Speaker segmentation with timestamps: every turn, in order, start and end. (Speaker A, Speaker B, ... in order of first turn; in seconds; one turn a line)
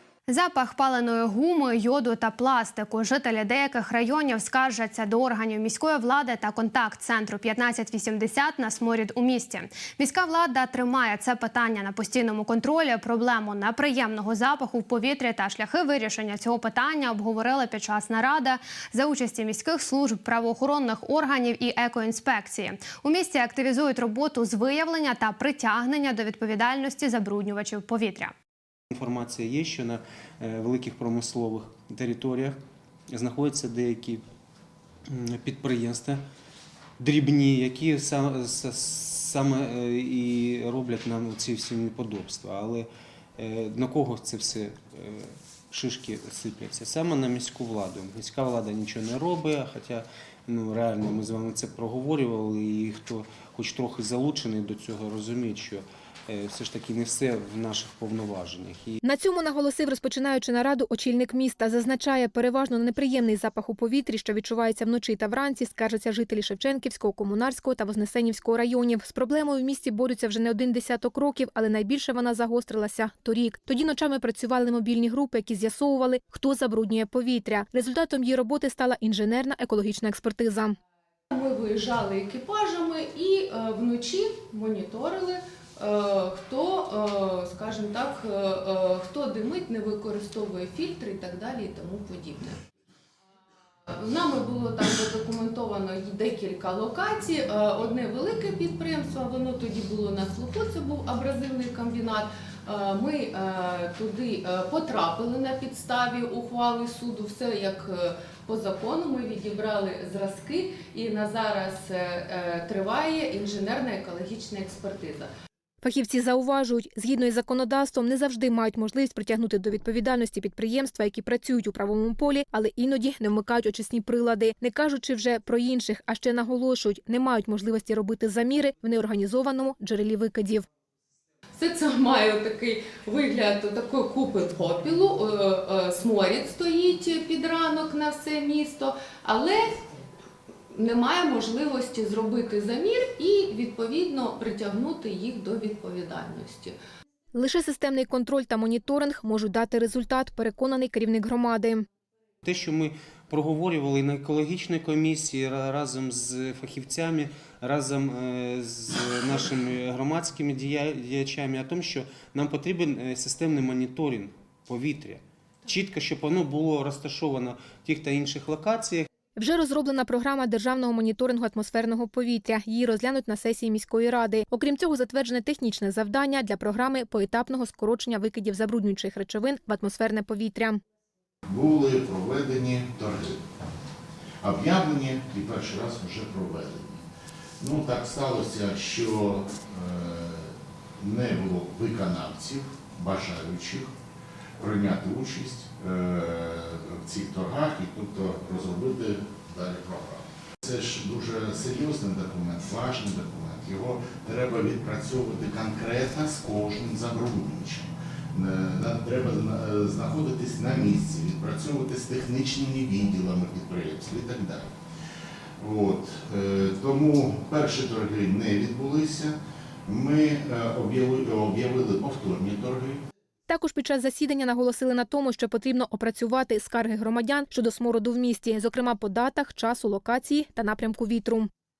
Speaker A: 0.3-28.3
Speaker B: 28.9-32.6
Speaker B: 33.1-34.2
Speaker B: 35.1-36.2
Speaker B: 37.0-59.0
Speaker C: 59.0-80.8
Speaker D: 81.3-92.6
Speaker D: 93.9-115.3
Speaker C: 115.8-130.6
Speaker D: 131.6-139.8
Speaker D: 140.7-146.8
Speaker C: 147.3-151.9
Speaker B: 152.4-169.1
Speaker C: 169.4-180.8
Speaker E: 181.5-183.4
Speaker E: 184.4-187.1
Speaker E: 187.6-193.9
Speaker E: 194.6-214.7
Speaker E: 215.6-219.4
Speaker E: 219.9-223.0
Speaker C: 223.5-231.5